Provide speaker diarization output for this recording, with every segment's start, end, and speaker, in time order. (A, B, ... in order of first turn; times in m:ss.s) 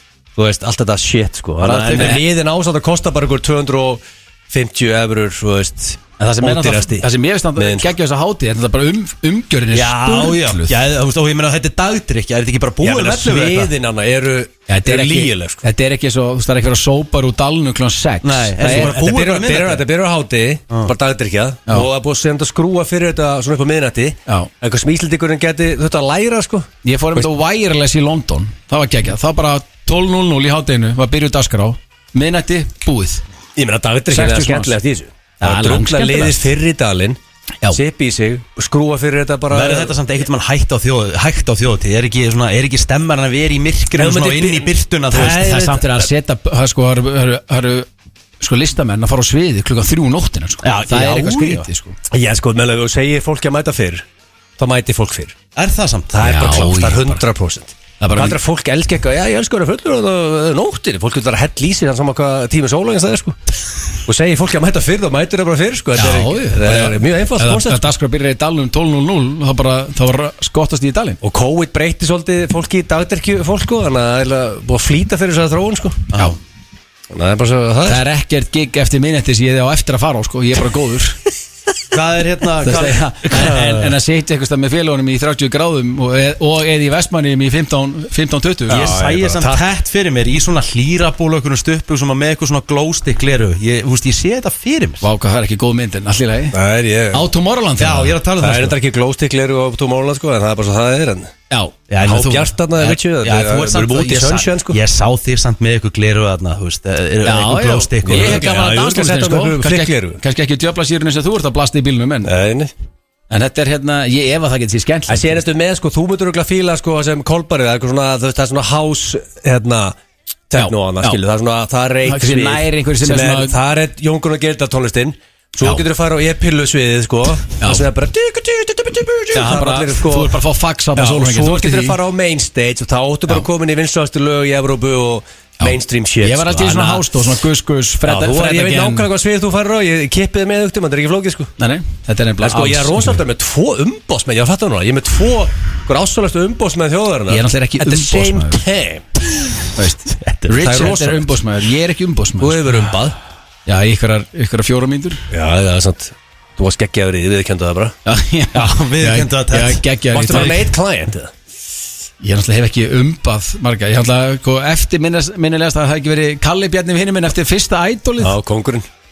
0:00.4-0:07.9 A
0:01.6-0:02.2 B
0:01.7-0:02.2 C
0:06.2-0:10.8 C
0:09.7-0:13.7 B
0:12.8-0:15.6 A
0:14.7-0:19.0 C
0:18.2-0:19.8 B
0:18.6-0:27.3 A
0:26.8-0:33.2 C
0:33.6-0:40.0 A
0:34.1-0:34.8 C
0:35.4-0:36.5 C
0:39.5-0:45.7 B
0:43.9-0:46.0 A
0:45.2-0:47.9 C
0:48.4-0:52.0 C
0:50.6-0:51.7 B
0:52.1-0:54.0 A
0:54.6-0:55.3 A
0:55.6-0:56.1 B
0:56.1-1:03.4 A
0:56.2-0:57.2 C
0:58.0-0:58.4 C
1:04.0-1:07.8 A
1:06.0-1:11.2 C
1:11.2-1:16.1 A
1:16.1-1:16.4 B
1:17.1-1:18.0 A
1:17.8-1:21.2 C
1:21.9-1:23.6 B
1:22.6-1:28.9 C
1:23.3-1:23.9 A
1:28.7-1:29.6 A
1:28.7-1:35.0 B
1:35.0-1:36.6 C
1:36.5-1:37.3 A
1:37.1-1:38.2 C
1:37.8-1:38.8 B
1:38.4-1:41.3 A
1:41.5-1:41.7 C
1:41.9-1:48.4 B
1:42.0-1:44.8 A
1:47.2-1:52.3 C
1:48.0-1:50.2 A
1:52.2-1:52.7 A
1:53.3-1:55.4 C
1:55.1-2:00.0 A
2:00.5-2:10.4 A
2:00.6-2:01.2 C
2:02.0-2:03.5 C
2:07.6-2:07.9 C
2:09.3-2:12.0 C
2:10.9-2:17.1 A
2:15.6-2:19.1 C
2:18.0-2:21.5 A
2:21.6-2:23.2 C
2:22.4-2:29.0 A
2:27.3-2:28.6 C
2:29.7-2:32.8 C
2:30.2-2:30.9 B
2:30.6-2:31.3 A
2:32.4-2:33.2 A
2:33.6-2:35.2 C
2:35.3-2:38.0 A
2:38.0-2:40.7 C
2:38.5-2:39.8 B
2:40.1-2:41.3 A
2:42.2-2:48.3 C
2:48.2-2:48.8 A